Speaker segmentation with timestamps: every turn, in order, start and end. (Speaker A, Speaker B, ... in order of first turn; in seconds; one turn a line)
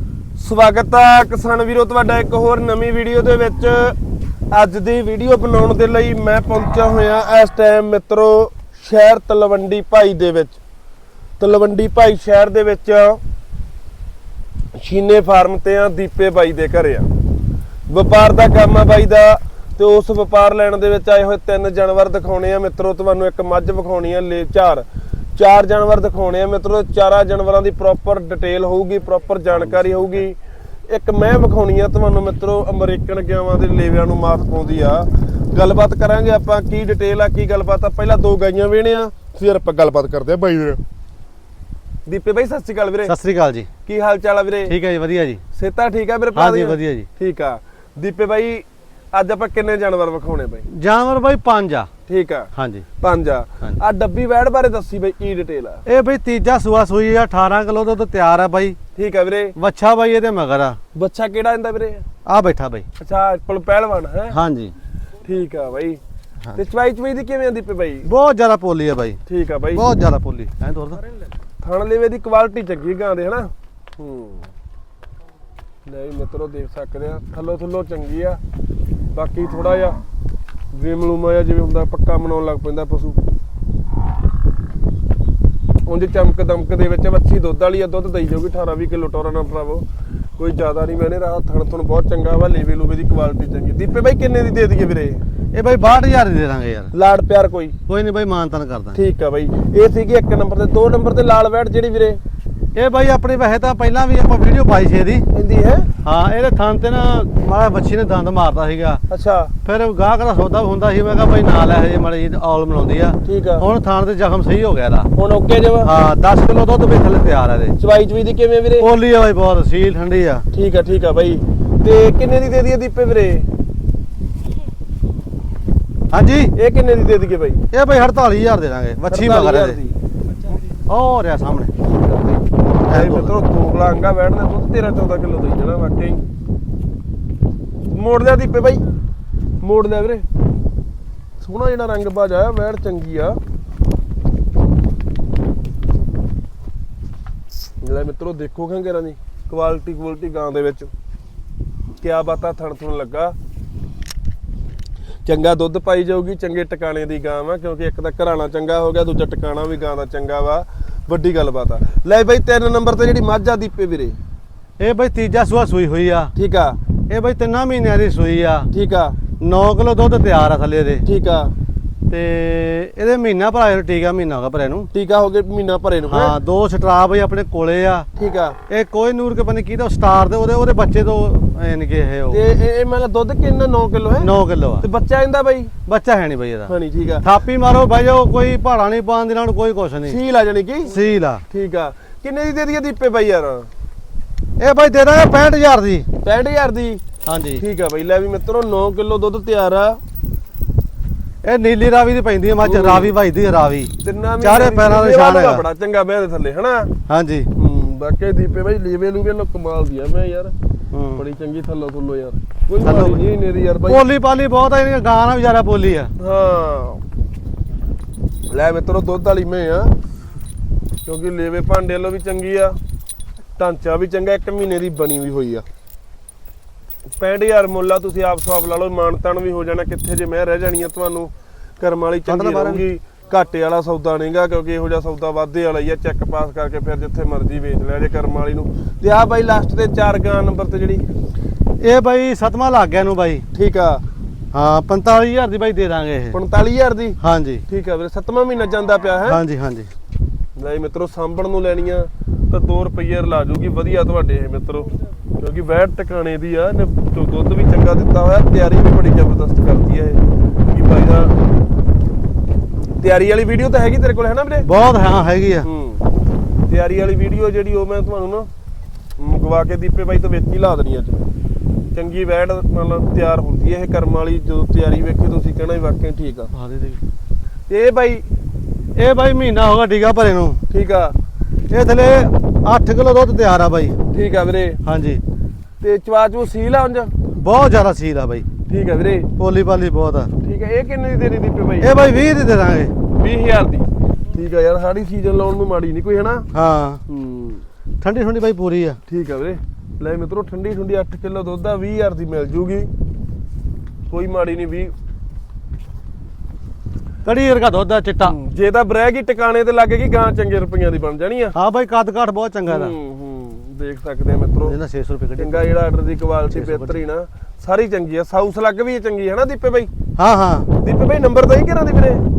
Speaker A: 0.3-4.0
Speaker A: 4.5-10.6
Speaker A: 11.4-13.2
Speaker A: 14.7-17.1
Speaker A: 17.9-30.4
Speaker A: 30.9-40.8
Speaker A: 42.0-43.1
Speaker B: 43.0-43.7
Speaker A: 43.8-44.8
Speaker B: 44.7-45.4
Speaker A: 45.5-50.7
Speaker B: 46.3-47.1
Speaker B: 50.7-51.9
Speaker A: 52.1-55.8
Speaker B: 52.5-52.9
Speaker B: 55.9-58.8
Speaker A: 59.0-59.5
Speaker B: 59.6-60.8
Speaker A: 60.9-62.0
Speaker B: 62.2-62.9
Speaker A: 63.0-64.4
Speaker B: 64.3-64.7
Speaker A: 65.2-66.0
Speaker A: 66.5-68.1
Speaker B: 68.0-69.2
Speaker A: 69.2-69.9
Speaker B: 69.7-71.0
Speaker A: 71.6-74.5
Speaker A: 75.9-78.4
Speaker A: 79.1-80.0
Speaker A: 80.7-83.2
Speaker A: 85.9-89.8
Speaker A: 90.4-95.2
Speaker B: 95.5-96.9
Speaker A: 96.9-97.8
Speaker B: 97.9-99.0
Speaker A: 98.9-102.2
Speaker B: 102.8-105.3
Speaker A: 105.3-105.9
Speaker B: 106.0-109.0
Speaker A: 109.1-109.5
Speaker B: 109.6-115.1
Speaker A: 113.2-113.7
Speaker A: 115.1-115.9
Speaker B: 115.8-117.8
Speaker A: 117.8-118.9
Speaker B: 118.8-120.5
Speaker A: 120.5-123.5
Speaker B: 126.1-126.5
Speaker A: 126.5-127.6
Speaker B: 127.7-129.8
Speaker A: 129.1-129.9
Speaker B: 130.9-131.7
Speaker A: 131.9-136.2
Speaker B: 132.9-133.4
Speaker A: 137.9-138.8
Speaker A: 139.6-140.2
Speaker A: 141.4-143.4
Speaker A: 147.8-150.9
Speaker A: 152.0-153.3
Speaker A: 155.2-164.2
Speaker B: 164.8-166.3
Speaker A: 166.3-166.8
Speaker B: 167.1-168.7
Speaker A: 168.7-169.2
Speaker B: 169.4-171.0
Speaker A: 171.0-171.5
Speaker B: 172.1-174.9
Speaker A: 174.9-176.3
Speaker B: 176.1-178.1
Speaker A: 178.2-178.6
Speaker B: 178.7-182.4
Speaker A: 182.3-185.7
Speaker B: 184.2-184.8
Speaker B: 185.9-190.2
Speaker A: 186.7-187.2
Speaker A: 190.1-190.9
Speaker B: 190.9-191.4
Speaker A: 191.5-193.7
Speaker B: 194.6-196.1
Speaker A: 196.2-197.0
Speaker B: 197.2-197.6
Speaker A: 197.6-200.0
Speaker B: 201.4-205.7
Speaker A: 202.6-203.1
Speaker A: 204.0-206.9
Speaker B: 207.1-207.5
Speaker A: 207.5-210.5
Speaker B: 210.9-211.2
Speaker A: 211.2-214.1
Speaker B: 212.8-213.2
Speaker B: 213.8-216.1
Speaker A: 216.2-217.0
Speaker A: 218.5-219.9
Speaker A: 221.1-222.8
Speaker A: 223.6-225.7
Speaker A: 227.2-241.0
Speaker B: 232.2-232.8
Speaker B: 241.8-243.4
Speaker A: 243.5-244.0
Speaker B: 244.5-246.4
Speaker A: 246.3-249.4
Speaker B: 247.2-247.6
Speaker B: 249.2-249.9
Speaker A: 250.6-261.4
Speaker A: 263.0-264.7
Speaker B: 264.6-265.7
Speaker A: 265.6-266.0
Speaker A: 266.7-268.5
Speaker A: 269.2-271.2
Speaker A: 271.9-276.5
Speaker B: 276.5-277.0
Speaker A: 277.7-278.2
Speaker B: 278.9-280.6
Speaker A: 280.7-281.1
Speaker B: 281.7-283.9
Speaker A: 284.1-284.8
Speaker B: 284.8-285.2
Speaker A: 285.8-287.1
Speaker B: 287.3-288.5
Speaker A: 288.7-289.3
Speaker B: 289.4-290.3
Speaker A: 290.4-291.9
Speaker B: 291.8-292.9
Speaker A: 293.1-296.5
Speaker B: 296.5-297.0
Speaker A: 297.1-297.6
Speaker B: 298.0-299.0
Speaker A: 299.1-302.9
Speaker A: 304.1-304.9
Speaker B: 307.2-308.4
Speaker A: 308.2-311.6
Speaker B: 311.6-312.9
Speaker A: 312.6-314.8
Speaker B: 314.6-315.7
Speaker A: 315.4-319.9
Speaker B: 316.5-317.0
Speaker B: 320.2-320.7
Speaker A: 320.8-322.2